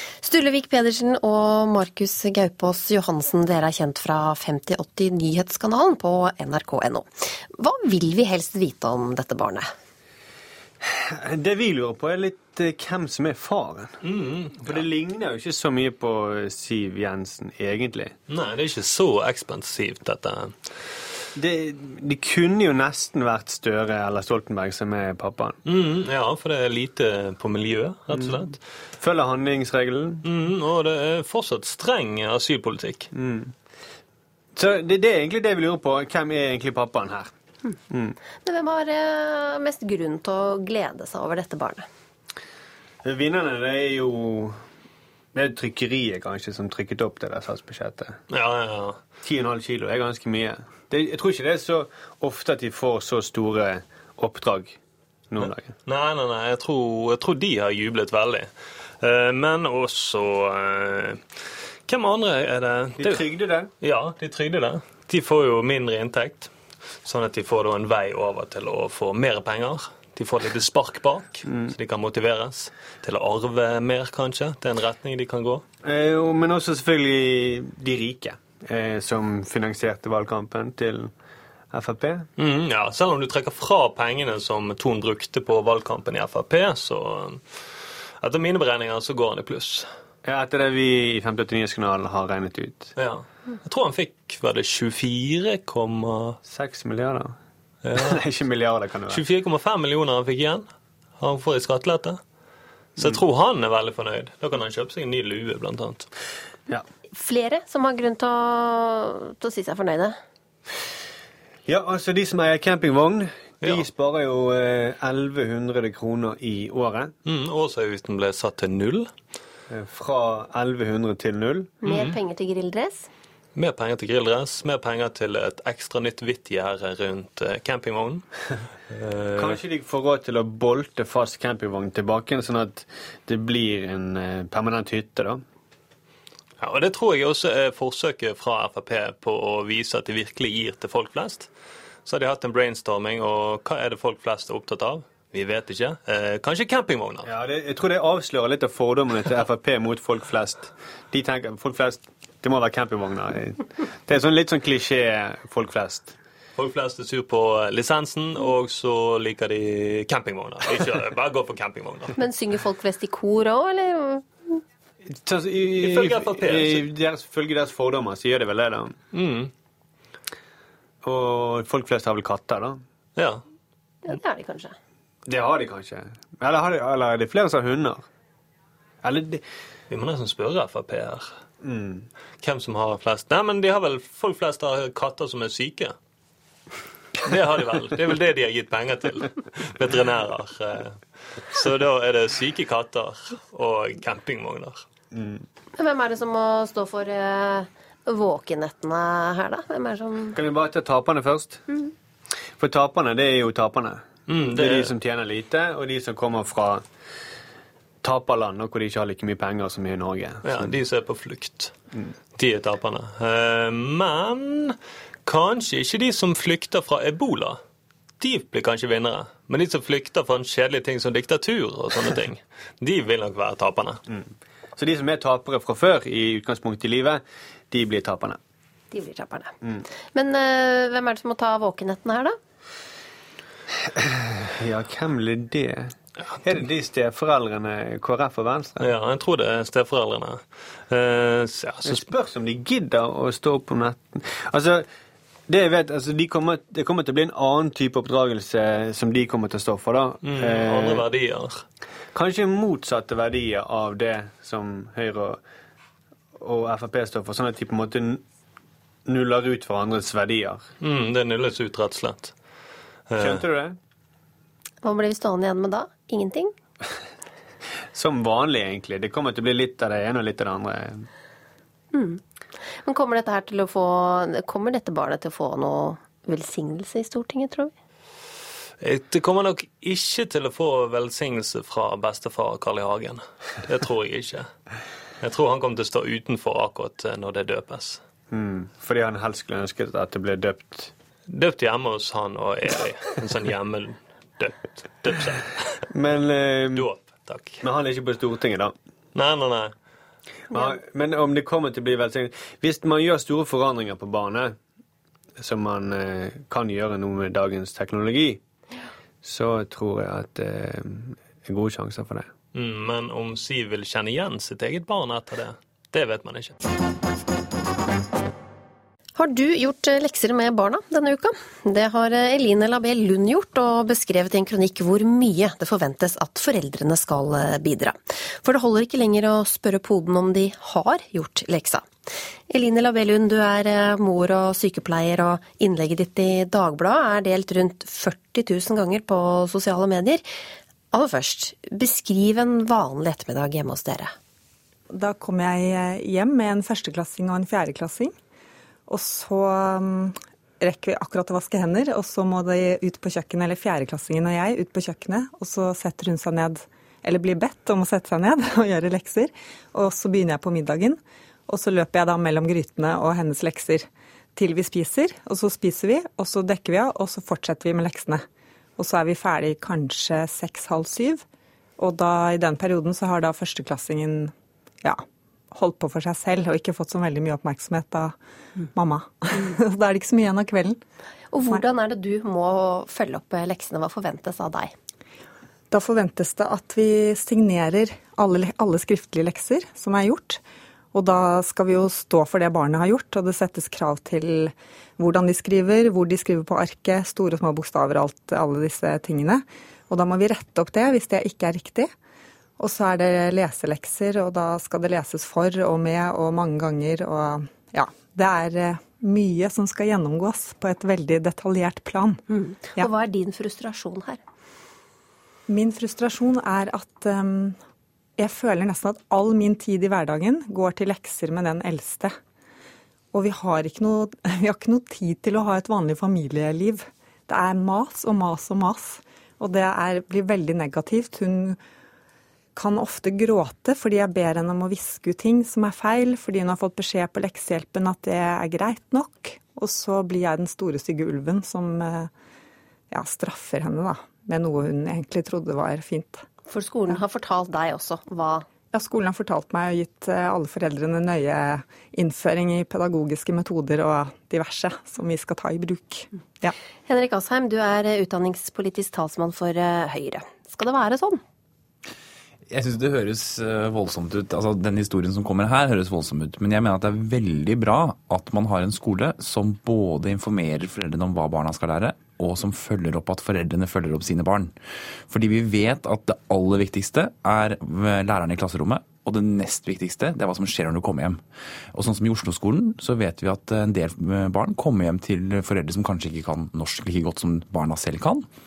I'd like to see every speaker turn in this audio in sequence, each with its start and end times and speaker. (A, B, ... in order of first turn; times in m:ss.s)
0:00.2-0:09.7 A
0:10.8-0:14.0 B
0:14.0-0:14.9 C
0:14.6-0:18.2 B
0:18.3-0:20.8 C
0:21.4-0:25.6 B
0:25.6-0:28.6 C
0:28.1-0:30.2 B
0:30.2-0:33.1 C
0:33.1-0:33.5 B
0:34.6-0:37.3 B
0:37.9-0:38.1 B
0:38.4-0:41.9 A
0:43.0-0:44.6 B
0:45.3-0:48.2 B
0:48.3-0:49.0 C
0:49.2-0:54.8 B
0:55.3-0:55.8 B
0:55.4-1:15.6 C
1:03.0-1:03.7 B
1:11.4-1:11.7 B
1:15.8-1:21.1 B
1:21.7-1:22.3 B
1:22.4-1:29.9 C
1:30.2-1:32.9 B
1:33.0-1:36.4 C
1:36.4-1:37.4 B
1:37.8-1:38.2 C
1:38.0-1:39.3 B
1:39.1-1:42.2 C
1:43.0-1:46.1 C
1:47.1-1:50.2 A
1:51.7-1:57.2 B
1:57.3-1:59.1 C
1:59.7-2:01.7 B
2:01.8-2:03.1 A
2:01.8-2:02.2 C
2:03.6-2:08.2 C
2:08.9-2:09.6 C
2:09.4-2:15.4 B
2:16.6-2:21.5 C
2:22.0-2:27.3 C
2:27.2-2:36.2 B
2:36.6-2:42.2 C
2:42.2-2:44.3 A
2:45.1-2:49.0 B
2:45.8-2:46.8 C
2:49.1-2:49.5 C
2:51.0-2:52.8 B
2:53.2-2:53.4 C
2:54.0-2:54.7 A
2:55.3-2:58.1 B
2:59.0-2:59.4 B
2:59.9-3:01.4 C
3:01.6-3:02.1 B
3:02.4-3:06.0 C
3:07.2-3:14.9 C
3:15.1-3:15.4 B
3:15.8-3:20.4 A
3:20.3-3:21.6 B
3:22.6-3:26.8 B
3:24.3-3:24.9 C
3:28.0-3:30.7 B
3:30.4-3:31.7 C
3:32.4-3:37.6 C
3:38.2-3:44.0 C
3:44.1-3:48.4 B
3:48.9-3:49.5 A
3:50.1-3:52.4 A
3:54.0-3:58.9 B
3:58.8-4:02.1 C
4:01.8-4:04.9 B
4:05.5-4:11.1 B
4:10.2-4:11.6 C
4:12.1-4:15.4 B
4:16.4-4:18.2 B
4:19.1-4:20.7 B
4:20.8-4:22.4 C
4:23.1-4:23.4 C
4:23.2-4:23.8 B
4:24.8-4:26.5 A
4:27.9-4:31.1 B
4:31.9-4:37.7 A
4:38.8-4:44.5 C
4:45.2-4:48.0 C
4:48.3-4:50.9 B
4:51.3-4:55.5 C
4:55.9-4:56.9 B
4:56.8-4:57.6 C
4:57.6-4:58.7 B
4:59.1-4:59.7 C
5:00.5-5:04.6 B
5:05.4-5:08.4 B
5:09.2-5:12.3 B
5:12.5-5:16.6 C
5:19.2-5:31.9 A
5:32.5-5:40.3 A
5:40.9-5:44.1 A
5:44.9-5:48.1 D
5:48.9-6:08.2 D
6:08.8-6:11.2 D
6:11.8-6:14.3 D
6:14.8-6:18.1 D
6:18.7-6:20.8 D
6:21.3-6:24.7 A
6:25.7-6:30.4 D
6:30.9-6:41.9 D
6:42.6-6:52.2 D
6:52.3-6:54.2 A
6:55.5-6:57.6 D
6:58.2-7:02.2 D
7:03.1-7:11.6 D
7:12.6-7:22.1 D
7:22.9-7:26.2 D
7:26.4-7:28.5 A
7:28.7-7:36.5 D
7:36.9-7:41.2 A
7:42.5-7:54.5 E
7:55.1-8:01.2 E
8:01.7-8:08.3 E